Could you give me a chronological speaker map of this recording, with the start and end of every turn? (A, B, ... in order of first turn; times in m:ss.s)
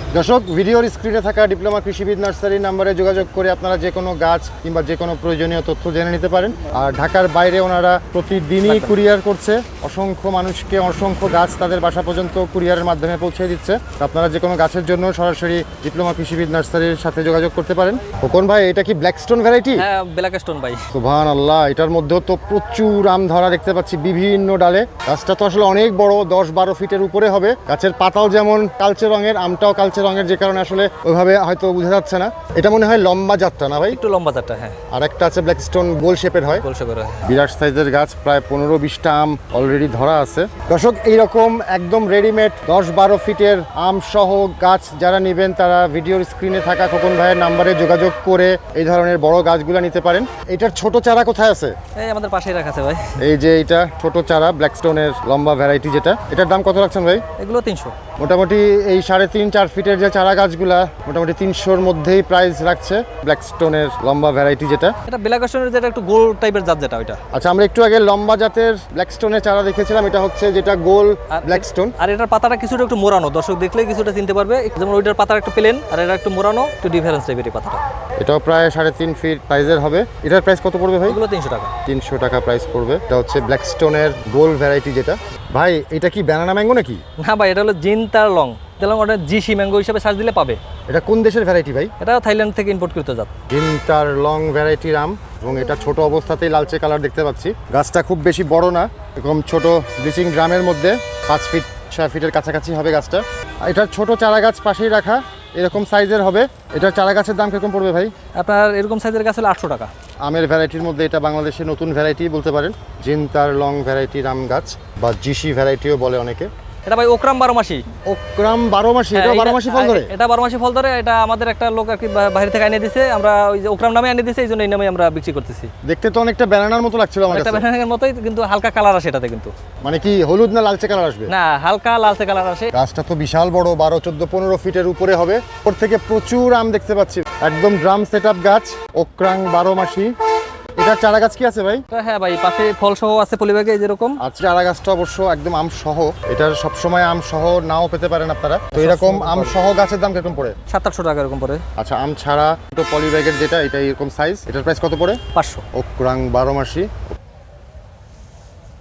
0:00.1-0:19.8 A
0:08.6-0:09.0 B
0:19.8-0:20.8 B
0:20.9-0:34.0 A
0:33.9-0:34.8 B
0:34.9-0:36.6 A
0:36.5-0:37.3 B
0:37.2-0:51.7 A
0:52.0-0:53.2 B
0:53.2-0:57.2 A
0:57.4-0:58.0 B
0:58.2-1:04.9 A
1:05.1-1:07.2 B
1:07.3-1:11.9 A
1:11.3-1:17.8 B
1:18.2-1:21.2 A
1:21.0-1:21.7 B
1:21.8-1:27.0 A
1:27.2-1:30.6 B
1:30.9-1:31.9 A
1:32.0-1:33.3 B
1:33.5-1:48.1 A
1:48.4-1:49.9 B
1:50.2-1:56.5 A
1:56.8-1:57.8 B
1:58.0-2:00.1 A
1:59.1-2:05.7 B
2:05.8-2:07.6 A
2:07.3-2:09.5 B
2:09.8-2:11.3 A
2:11.3-2:12.7 B
2:12.7-2:20.1 A
2:20.8-2:21.8 A
2:21.9-2:24.2 B
2:24.2-2:30.6 A
2:28.7-2:29.6 B
2:30.7-2:31.6 B
2:31.8-2:35.2 A
2:35.3-2:35.6 B
2:35.7-2:36.9 A